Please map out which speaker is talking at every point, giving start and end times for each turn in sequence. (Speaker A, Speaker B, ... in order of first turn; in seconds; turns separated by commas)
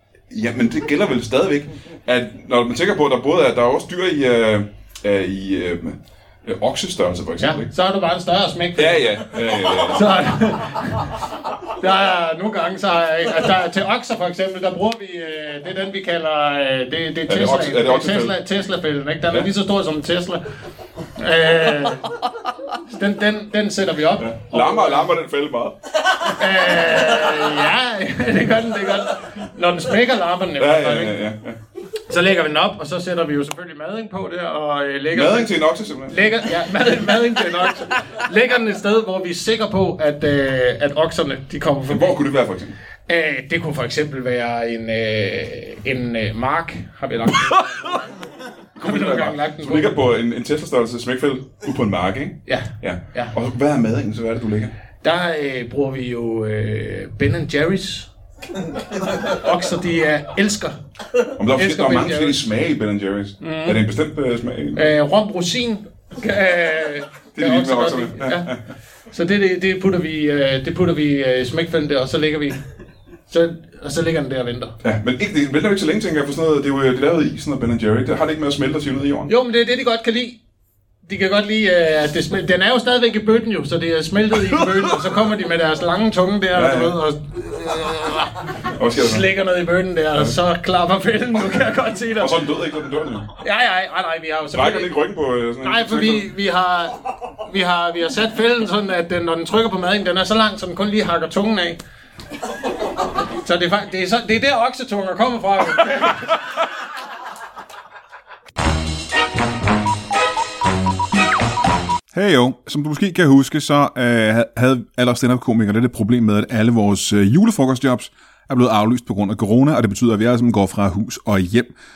Speaker A: 0.3-7.7, Speaker B: 7.4-11.1, Speaker A: 8.8-10.2, Speaker B: 11.8-20.4, Speaker A: 17.3-18.4, Speaker B: 21.2-22.1, Speaker B: 22.9-25.1, Speaker A: 24.2-25.8, Speaker B: 26.2-31.2, Speaker A: 30.6-31.6, Speaker B: 32.1-42.2, Speaker A: 35.1-36.2, Speaker A: 41.9-42.8, Speaker B: 43.1-48.0, Speaker A: 48.8-54.7, Speaker B: 48.8-50.0, Speaker B: 52.5-53.3, Speaker B: 55.0-58.1, Speaker B: 59.0-60.8, Speaker A: 61.4-64.9, Speaker B: 61.5-62.5, Speaker B: 63.4-63.8, Speaker B: 64.8-68.5, Speaker A: 67.3-68.6, Speaker B: 69.1-72.6, Speaker B: 73.3-74.7, Speaker A: 74.8-79.3, Speaker B: 79.3-80.4, Speaker B: 81.0-92.4, Speaker A: 84.5-84.9, Speaker A: 86.5-87.0, Speaker A: 88.7-89.3, Speaker A: 92.2-93.3, Speaker B: 93.4-94.9, Speaker A: 94.5-96.3, Speaker B: 95.6-101.8, Speaker B: 103.4-106.4, Speaker A: 112.1-121.7